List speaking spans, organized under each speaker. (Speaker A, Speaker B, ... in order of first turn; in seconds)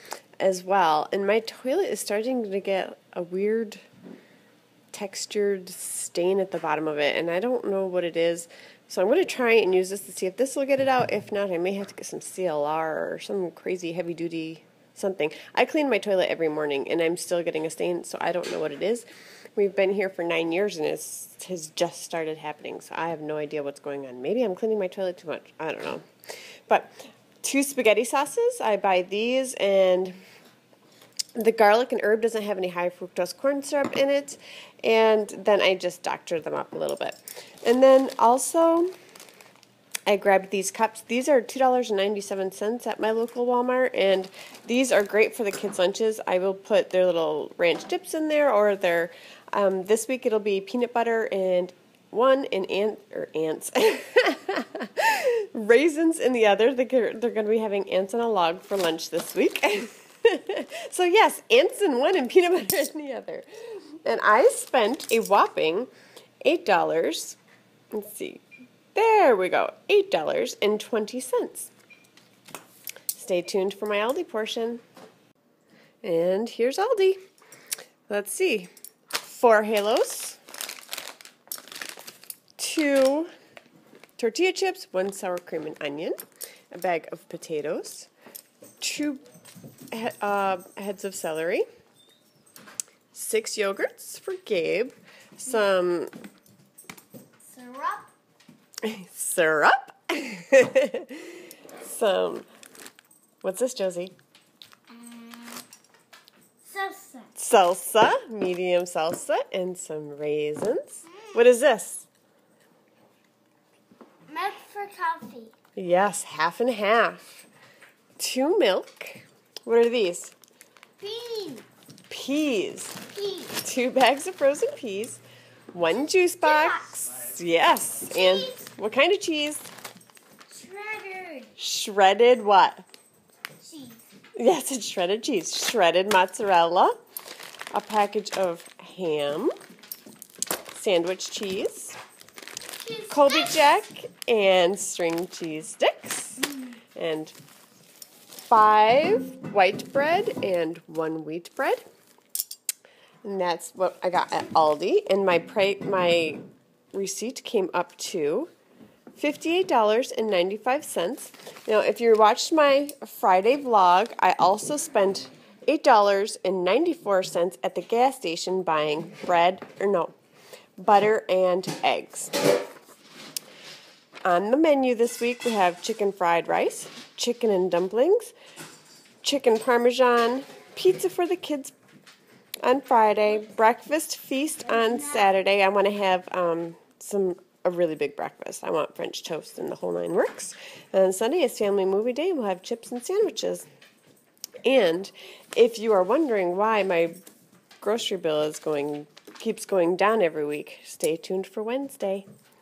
Speaker A: 0.4-3.8, 4.9-26.1, 26.7-30.2, 31.3-38.9, 40.1-65.9, 66.4-67.4, 67.9-71.7, 73.1-74.8, 76.0-77.2, 78.1-78.7, 79.2-80.4, 82.6-83.3, 84.2-86.2, 86.7-88.1, 88.8-89.2, 89.9-91.7, 93.1-96.1, 98.8-102.5, 103.4-104.1, 107.3-112.1, 115.8-117.5, 118.2-120.3, 122.1-125.2, 125.7-129.7, 131.6-132.8, 134.4-136.9, 137.7-139.5, 140.7-142.0, 143.1-147.3, 148.5-151.8, 153.2-158.5, 159.1-170.1, 170.8-172.3, 174.2-178.3, 179.2-181.7, 182.6-193.7, 194.6-197.1, 197.8-202.3
Speaker B: 97.4-98.1, 104.9-105.6, 106.6-107.3, 114.3-115.5, 121.0-121.7, 123.1-123.6, 126.4-126.9, 128.1-128.6, 130.5-131.5, 133.6-134.0, 142.7-143.7, 184.8-185.3